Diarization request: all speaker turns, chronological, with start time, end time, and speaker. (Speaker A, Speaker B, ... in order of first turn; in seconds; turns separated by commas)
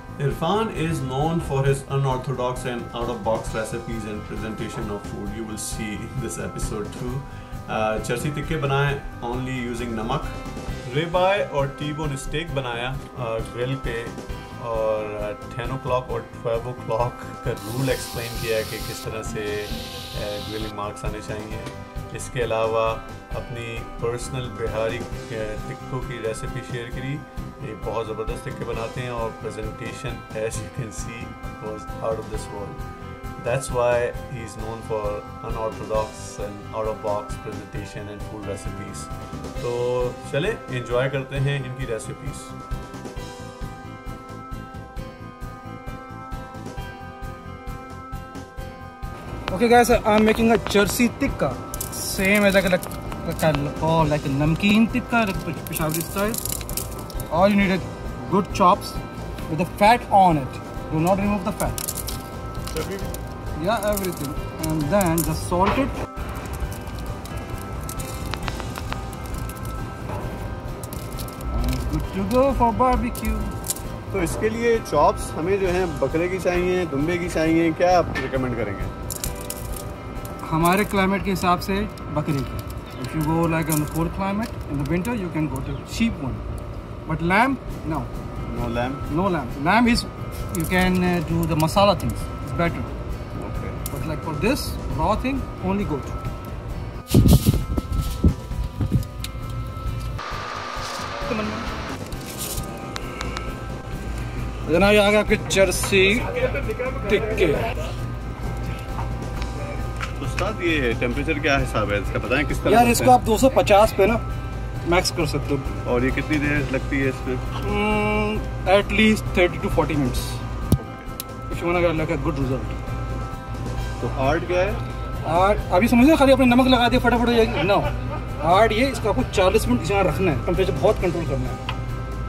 Speaker A: 0.2-32.8, Speaker A: 33.4-42.5, Speaker B: 49.5-56.4, Speaker B: 57.3-61.8, Speaker B: 63.6-66.0, Speaker B: 71.5-73.6, Speaker A: 74.1-78.9, Speaker B: 80.4-86.4, Speaker B: 87.1-88.1, Speaker A: 88.5-89.0, Speaker B: 89.1-92.9, Speaker A: 93.4-93.8, Speaker B: 93.9-96.2, Speaker B: 101.2-101.7, Speaker B: 104.7-107.7, Speaker A: 110.2-113.2, Speaker B: 112.7-114.2, Speaker B: 114.9-115.7, Speaker A: 115.8-117.5, Speaker B: 117.6-120.4, Speaker A: 120.7-121.1, Speaker B: 121.5-122.8, Speaker A: 124.0-124.8, Speaker B: 125.2-131.6